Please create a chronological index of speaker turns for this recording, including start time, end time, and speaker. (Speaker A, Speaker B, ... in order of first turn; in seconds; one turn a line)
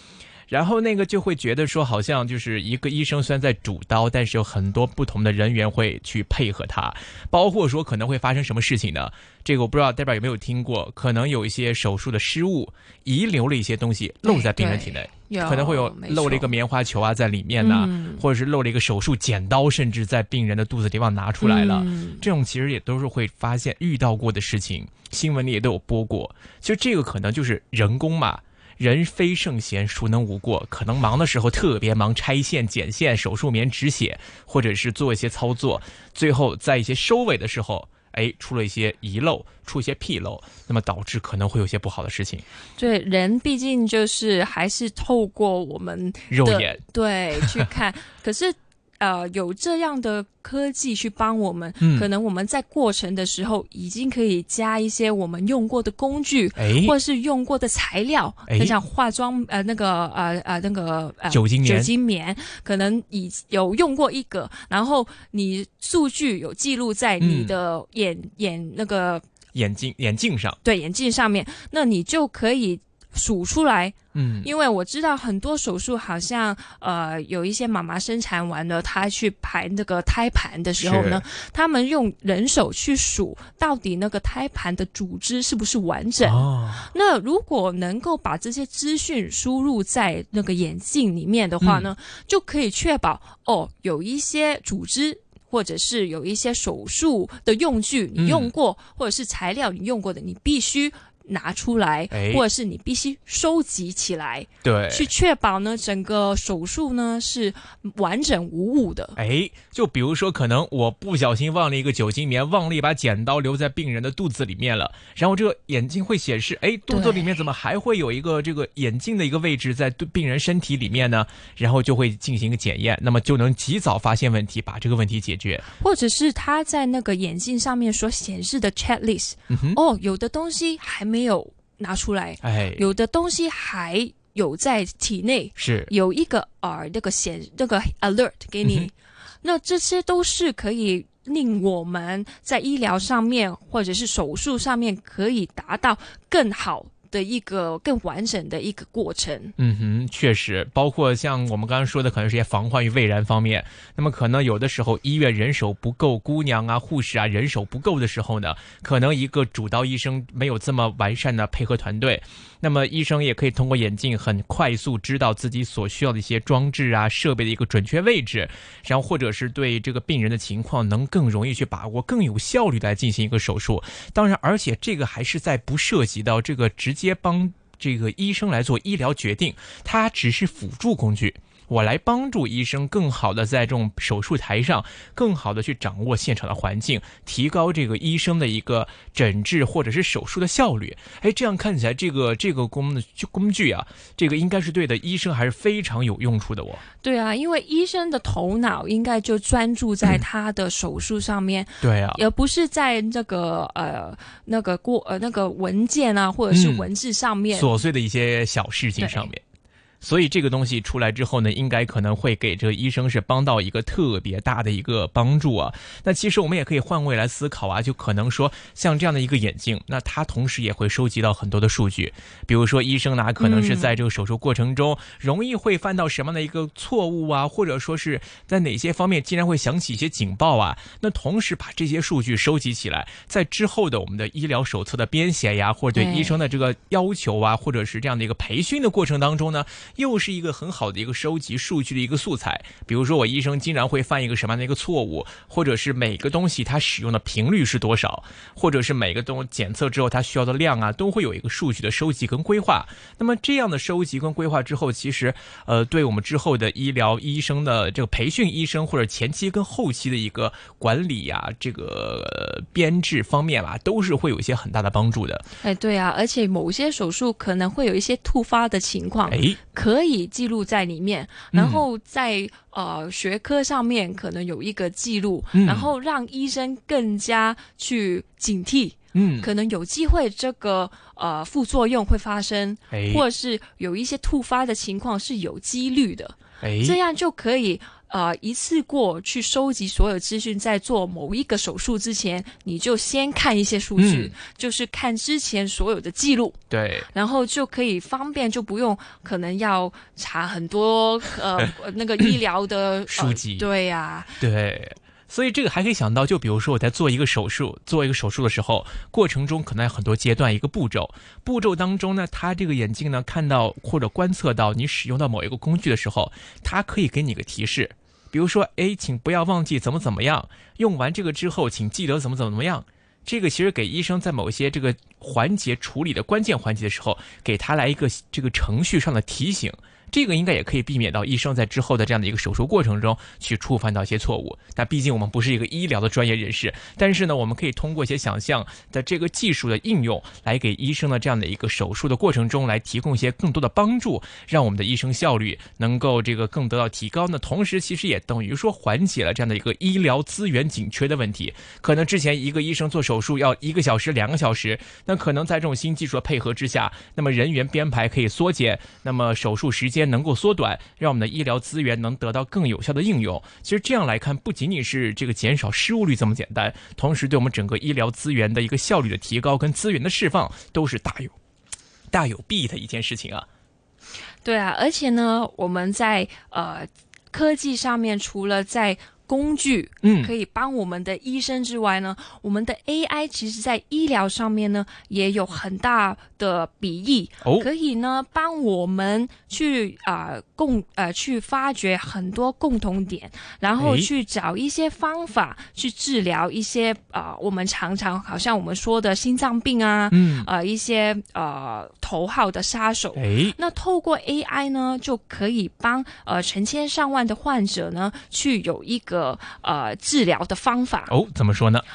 Speaker A: 0.5-42.4
Speaker B: 14.2-16.5
Speaker B: 17.6-18.2
Speaker B: 21.4-22.2
Speaker B: 42.8-69.2
Speaker A: 46.3-46.8
Speaker A: 47.4-47.6
Speaker A: 51.8-52.1
Speaker A: 56.6-56.9
Speaker A: 58.5-58.8
Speaker A: 61.3-61.9
Speaker A: 67.2-67.5
Speaker A: 69.5-70.6
Speaker B: 70.6-109.2
Speaker A: 74.1-74.5
Speaker A: 80.8-81.2
Speaker A: 86.2-86.9
Speaker A: 91.6-91.9
Speaker A: 98.2-98.5
Speaker A: 102.1-102.4
Speaker A: 104.6-105.1
Speaker A: 109.2-125.7
Speaker B: 116.9-117.2
Speaker B: 125.8-149.5
Speaker A: 129.5-129.8
Speaker A: 132.4-132.8
Speaker A: 135.6-135.9
Speaker A: 138.6-138.9
Speaker A: 149.6-196.8
Speaker B: 197.0-207.7
Speaker A: 201.8-202.2
Speaker A: 206.5-206.8
Speaker A: 207.5-209.4
Speaker B: 209.0-209.3
Speaker A: 210.0-265.4
Speaker B: 223.4-223.9
Speaker B: 235.9-236.3
Speaker B: 265.6-296.6
Speaker A: 269.3-269.6
Speaker A: 271.5-271.8
Speaker A: 275.5-275.9
Speaker A: 279.1-279.5
Speaker A: 282.9-283.2
Speaker A: 286.6-287.0
Speaker A: 294.0-294.3
Speaker A: 296.7-297.1
Speaker B: 297.1-304.4
Speaker A: 303.1-303.7
Speaker A: 304.4-371.3
Speaker A: 372.1-373.5
Speaker B: 374.4-411.1
Speaker A: 380.0-380.3
Speaker A: 393.8-394.1
Speaker A: 400.1-400.5
Speaker A: 403.1-403.6
Speaker A: 411.1-411.8